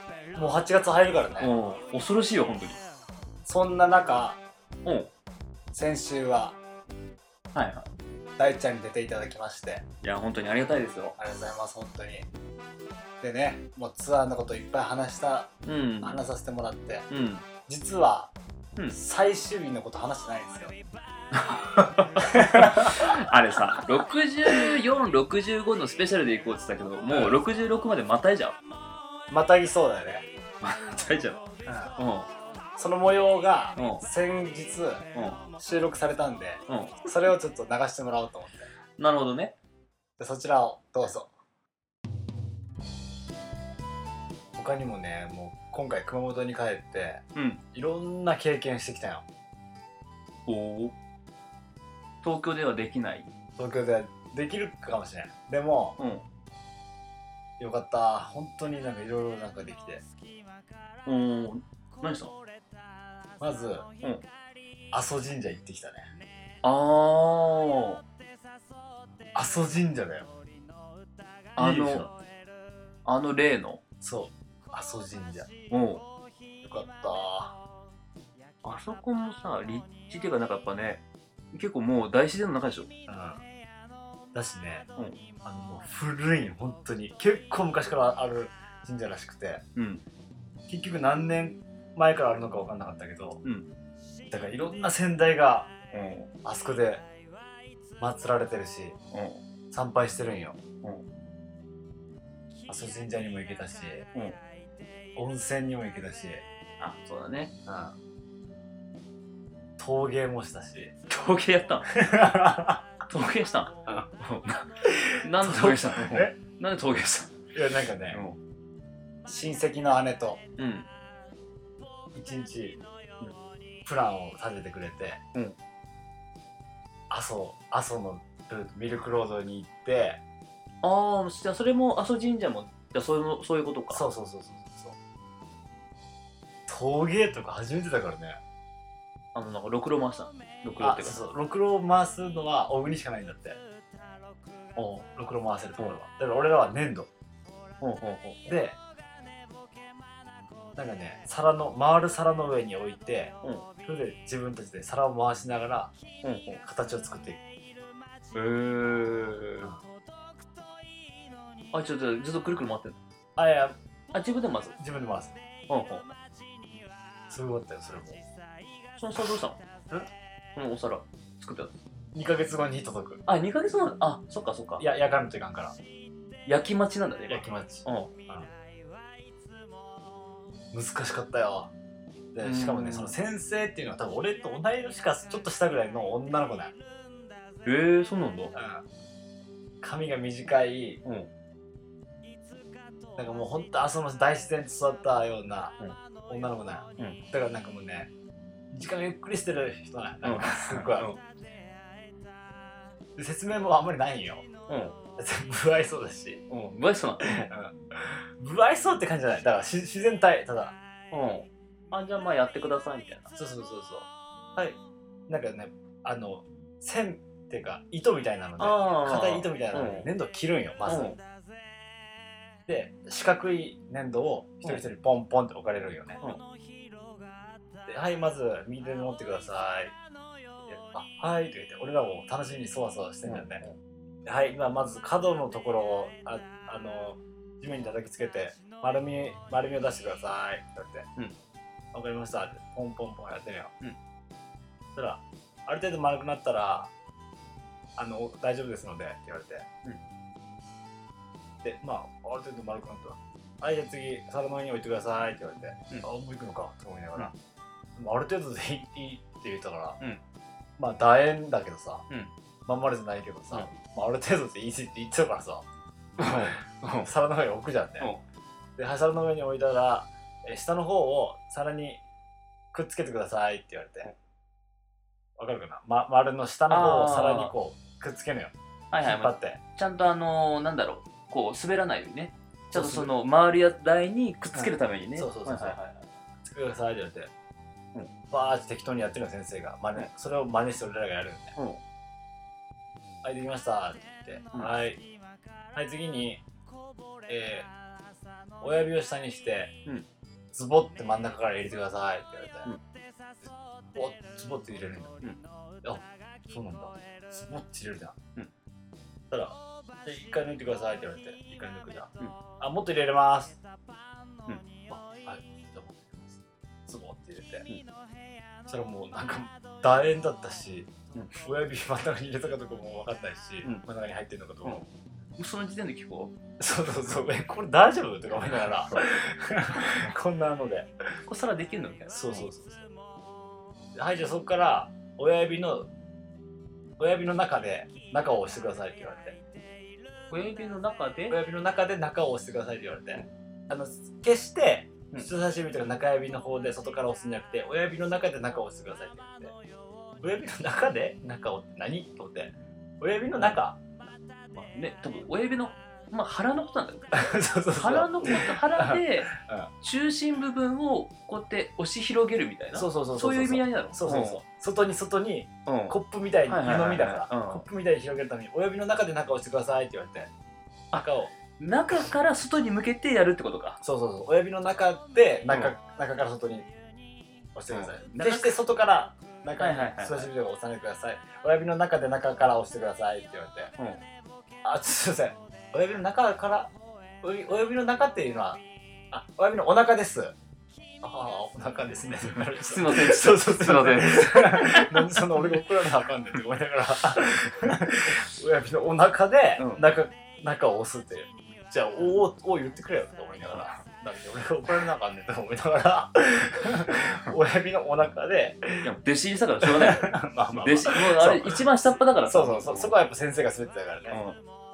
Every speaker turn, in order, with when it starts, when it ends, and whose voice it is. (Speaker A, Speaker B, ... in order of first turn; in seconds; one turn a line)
Speaker A: 0.3-1.5
Speaker B: 1.4-2.8
Speaker A: 3.5-4.4
Speaker B: 4.9-5.1
Speaker A: 5.7-6.6
Speaker B: 7.5-7.9
Speaker A: 8.4-9.9
Speaker B: 10.0-11.2
Speaker A: 11.2-12.3
Speaker A: 13.2-17.1
Speaker B: 15.7-16.2
Speaker B: 17.1-17.4
Speaker A: 17.7-18.3
Speaker A: 18.9-20.8
Speaker B: 21.3-28.6
Speaker A: 22.2-23.8
Speaker A: 24.5-24.7
Speaker A: 27.1-27.4
Speaker A: 29.3-30.3
Speaker B: 30.6-31.4
Speaker A: 31.7-32.0
Speaker B: 32.0-32.3
Speaker A: 32.8-38.7
Speaker B: 33.8-34.0
Speaker B: 35.1-35.4
Speaker B: 36.7-37.3
Speaker B: 39.0-39.5
Speaker A: 40.2-41.3
Speaker A: 44.5-49.3
Speaker B: 47.4-47.6
Speaker B: 50.5-51.0
Speaker B: 52.2-53.3
Speaker A: 53.6-56.0
Speaker B: 56.0-56.2
Speaker A: 57.6-60.0
Speaker B: 61.1-62.4
Speaker A: 63.4-63.9
Speaker A: 64.9-66.1
Speaker B: 66.6-68.0
Speaker A: 69.3-70.3
Speaker A: 71.6-72.1
Speaker B: 71.6-72.1
Speaker B: 73.1-73.8
Speaker A: 74.0-75.5
Speaker B: 75.7-76.0
Speaker A: 76.6-77.6
Speaker B: 78.6-82.9
Speaker A: 83.1-83.4
Speaker A: 84.3-84.9
Speaker A: 85.5-89.6
Speaker B: 89.8-90.0
Speaker A: 90.7-93.4
Speaker B: 93.4-93.7
Speaker A: 94.3-95.7
Speaker B: 95.9-96.3
Speaker A: 96.4-97.1
Speaker A: 98.0-99.0
Speaker B: 99.1-99.4
Speaker A: 99.7-100.6
Speaker A: 102.7-104.1
Speaker A: 105.2-106.5
Speaker B: 106.8-107.5
Speaker A: 107.7-108.0
Speaker A: 109.8-110.9
Speaker B: 111.1-112.0
Speaker A: 111.9-112.9
Speaker B: 113.1-117.4
Speaker A: 114.8-116.3
Speaker A: 117.5-118.2
Speaker B: 118.1-118.4
Speaker A: 119.3-120.5
Speaker B: 120.6-120.9
Speaker A: 122.1-122.8
Speaker A: 123.8-125.2
Speaker A: 127.1-130.2
Speaker B: 130.8-134.0
Speaker A: 133.9-135.0
Speaker A: 136.7-138.4
Speaker B: 139.3-141.2
Speaker A: 140.8-143.6
Speaker A: 144.8-147.1
Speaker B: 147.8-148.5
Speaker A: 148.5-148.8
Speaker A: 150.8-155.9
Speaker B: 156.2-156.6
Speaker A: 156.6-157.4
Speaker B: 158.3-159.7
Speaker B: 161.7-163.0
Speaker A: 163.4-163.8
Speaker B: 164.1-164.8
Speaker A: 164.8-165.4
Speaker B: 165.7-166.1
Speaker A: 167.3-168.2
Speaker B: 169.0-170.0
Speaker B: 170.6-171.7
Speaker A: 172.1-173.2
Speaker B: 173.3-174.9
Speaker A: 174.8-175.8
Speaker B: 176.5-178.1
Speaker A: 177.3-178.5
Speaker A: 180.7-181.7
Speaker A: 182.3-186.8
Speaker B: 182.4-183.1
Speaker B: 187.7-188.5
Speaker A: 188.5-188.9
Speaker A: 189.8-191.0
Speaker A: 193.2-198.1
Speaker A: 198.7-201.1
Speaker B: 200.2-201.2
Speaker A: 203.2-204.5
Speaker B: 204.7-205.0
Speaker A: 205.2-206.4
Speaker B: 206.5-207.5
Speaker A: 207.2-210.8
Speaker B: 211.1-213.3
Speaker A: 213.3-214.1
Speaker A: 215.3-221.1
Speaker B: 218.6-220.1
Speaker B: 220.9-221.2
Speaker A: 222.7-226.2
Speaker A: 227.9-229.9
Speaker A: 230.7-233.6
Speaker B: 233.3-233.8
Speaker A: 234.2-241.1
Speaker A: 241.9-243.7
Speaker A: 244.9-246.9
Speaker A: 248.0-249.7
Speaker A: 251.6-257.3
Speaker A: 258.0-260.0
Speaker A: 260.8-262.1
Speaker A: 262.7-265.7
Speaker B: 266.2-267.1
Speaker A: 266.2-268.1
Speaker A: 268.8-272.0
Speaker A: 272.7-274.1
Speaker A: 275.4-279.6
Speaker B: 276.7-277.5
Speaker B: 278.9-286.1
Speaker A: 282.7-283.1
Speaker A: 284.5-285.8
Speaker A: 286.4-287.3
Speaker A: 288.3-291.6
Speaker A: 293.2-295.1
Speaker A: 295.7-296.4
Speaker A: 297.3-297.7
Speaker A: 298.6-299.8
Speaker A: 300.5-302.7
Speaker A: 303.9-305.3
Speaker A: 305.8-308.2
Speaker A: 309.3-313.6
Speaker A: 314.9-317.7
Speaker A: 318.7-320.9
Speaker A: 321.4-324.9
Speaker B: 325.4-326.4
Speaker A: 326.6-330.9
Speaker B: 329.8-330.1
Speaker B: 331.3-332.5
Speaker A: 332.1-332.9
Speaker A: 333.9-335.9
Speaker A: 337.0-339.4
Speaker B: 340.3-341.4
Speaker A: 341.3-349.6
Speaker A: 350.2-353.8
Speaker B: 354.5-364.4
Speaker A: 357.1-359.7
Speaker A: 362.7-370.3
Speaker B: 365.7-367.7
Speaker B: 370.9-373.8
Speaker A: 370.9-371.3
Speaker A: 373.8-376.7
Speaker B: 375.5-375.7
Speaker A: 377.6-383.7
Speaker B: 377.7-378.6
Speaker B: 379.6-380.3
Speaker B: 383.8-384.0
Speaker A: 384.6-390.4
Speaker A: 391.0-408.9
Speaker B: 392.5-395.6
Speaker B: 399.6-399.9
Speaker B: 408.8-413.0
Speaker A: 409.6-411.7
Speaker A: 412.2-414.2
Speaker B: 414.1-414.4